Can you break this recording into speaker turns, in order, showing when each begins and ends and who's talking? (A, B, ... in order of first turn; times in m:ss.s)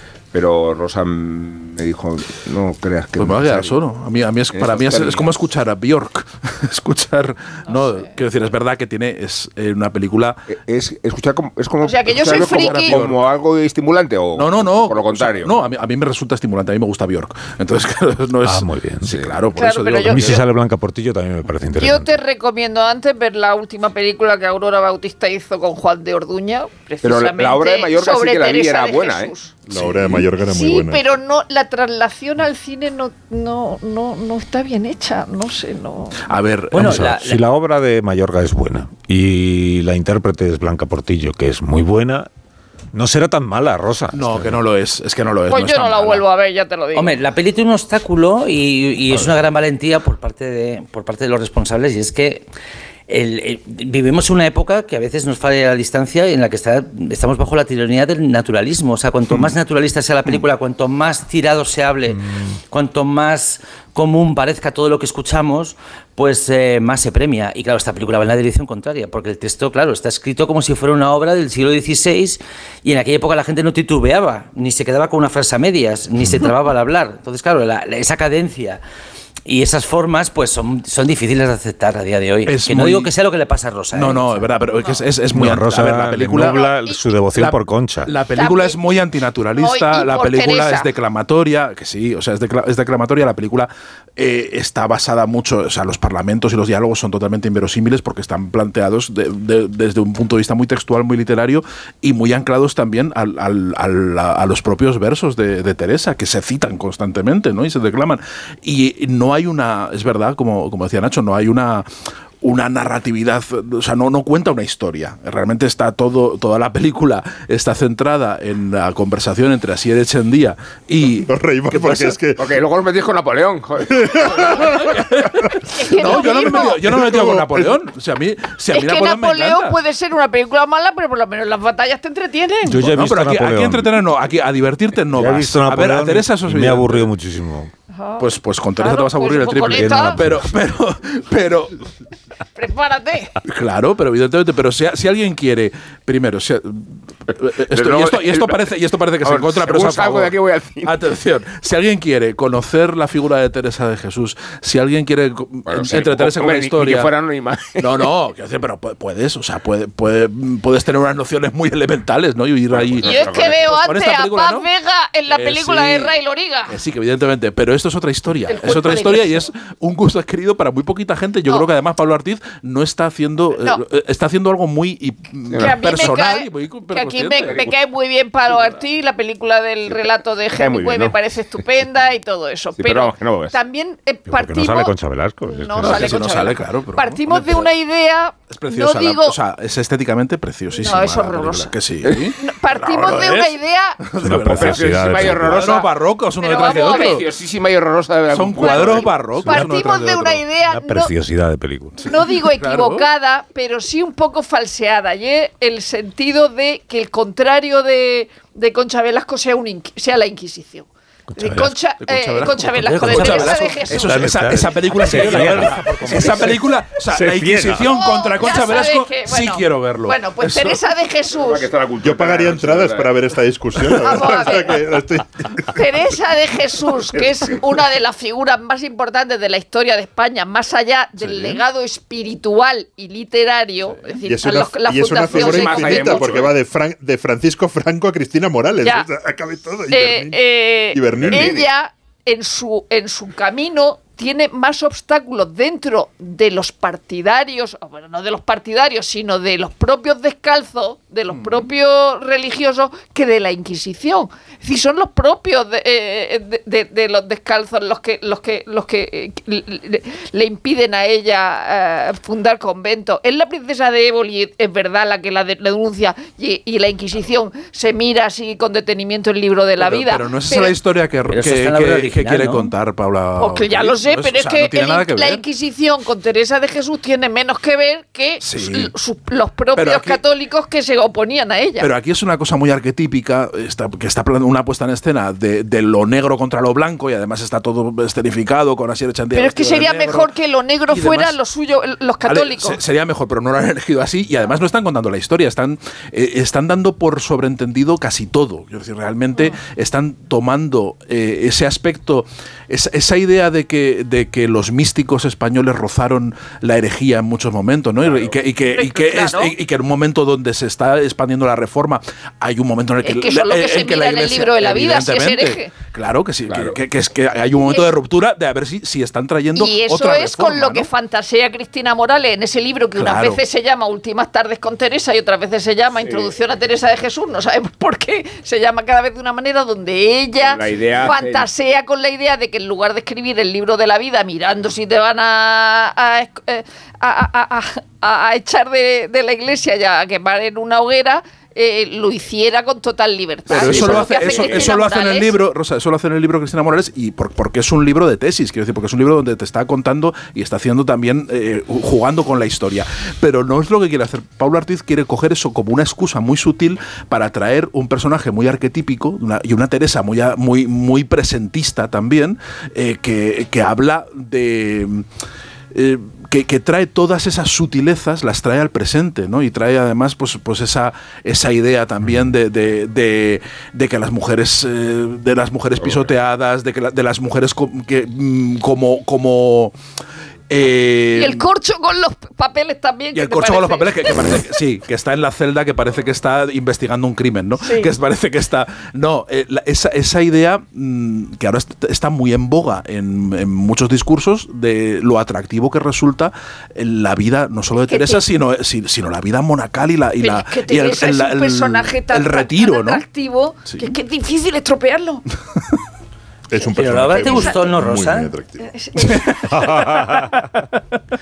0:00.3-0:03.8 A
0:03.2-0:10.4 B
0:04.5-0:05.4 A
0:07.7-0:08.0 C
0:10.5-0:15.6 A
0:11.8-0:13.0 C
0:12.2-0:13.2 B
0:14.3-0:20.4 B
0:18.4-0:19.2 D
0:19.0-0:19.3 A
0:19.6-0:20.4 C
0:20.1-0:22.2 D
0:21.8-0:29.6 C
0:27.0-0:29.8 A
0:29.7-0:31.0 E
0:30.4-0:36.3 C
0:36.2-0:37.1 B
0:36.7-0:37.4 F
0:36.8-0:42.3 D
0:42.9-0:44.6 D
0:44.1-0:46.2 B
0:45.5-0:47.1 C
0:46.9-0:52.5 F
0:53.1-1:18.8 F
1:19.4-1:24.5 F
1:22.4-1:23.1 B
1:23.9-1:26.6 B
1:25.3-1:28.1 D
1:26.4-1:27.0 C
1:27.3-1:51.9 B
1:28.3-1:28.8 C
1:29.5-1:30.9 C
1:52.4-2:02.2 B
2:01.1-2:02.5 E
2:02.4-2:04.8 A
2:03.9-2:05.0 E
2:04.6-2:09.8 B
2:05.7-2:06.8 C
2:05.9-2:07.8 E
2:08.7-2:12.9 C
2:12.6-2:13.9 D
2:12.8-2:17.1 B
2:15.1-2:17.7 D
2:17.9-2:20.2 C
2:18.2-2:21.8 B
2:19.7-2:20.5 D
2:22.6-2:23.3 C
2:23.4-2:37.1 B
2:27.6-2:31.1 A
2:35.7-2:38.1 A
2:37.8-2:44.7 B
2:42.7-2:43.7 A
2:43.0-2:46.8 C
2:45.3-2:46.1 B
2:46.7-2:57.7 B
2:48.5-2:49.4 C
2:53.6-2:53.8 C
2:55.5-2:56.1 A
2:55.6-3:04.9 C
2:57.4-2:57.7 A
3:00.5-3:01.2 A
3:02.8-3:03.6 A
3:04.3-3:06.2 D
3:05.5-3:09.4 C
3:05.8-3:07.7 B
3:08.5-3:17.3 B
3:10.7-3:11.7 C
3:12.4-3:14.0 C
3:14.2-3:15.8 D
3:14.5-3:15.9 A
3:16.4-3:17.2 C
3:16.5-3:19.1 A
3:18.3-3:20.5 B
3:18.6-3:21.1 C
3:20.6-3:22.0 D
3:22.0-3:23.1 B
3:22.0-3:34.3 C
3:31.3-3:31.8 D
3:32.0-3:40.8 B
3:32.7-3:33.8 F
3:34.0-3:37.9 D
3:35.1-3:36.5 F
3:37.8-3:41.7 C
3:41.3-3:43.2 A
3:42.0-3:45.8 E
3:43.9-3:44.8 C
3:45.7-3:56.3 C
3:51.2-3:51.6 A
3:54.3-4:00.4 E
3:55.3-3:56.5 A
3:58.8-3:59.1 C
3:59.9-4:30.8 C
4:00.9-4:01.6 E
4:01.2-4:01.7 A
4:11.4-4:11.7 B
4:29.8-4:35.4 B
4:31.3-4:32.7 F
4:33.4-4:41.9 C
4:38.4-4:38.9 B
4:39.7-4:40.2 B
4:41.8-4:51.4 B
4:49.3-4:52.8 C
4:52.2-5:20.9 B
5:08.7-5:09.5 C
5:13.0-5:15.7 C
5:16.5-5:16.8 A
5:19.5-5:45.4 C
5:22.9-5:23.4 B
5:26.0-5:26.3 A
5:30.4-5:31.5 A
5:43.5-6:05.0 B
5:43.5-5:44.8 A
6:05.7-6:19.7 B
6:20.5-6:21.5 B
6:21.1-6:24.4 C
6:23.1-6:43.0 B
6:27.6-6:27.9 C
6:37.9-6:38.2 C
6:40.2-6:45.2 C
6:43.6-6:43.9 B
6:46.5-6:48.7 E
6:46.7-6:48.3 F
6:47.1-6:47.6 C
6:48.6-6:49.8 C
6:49.1-6:49.4 B
6:49.5-6:50.5 D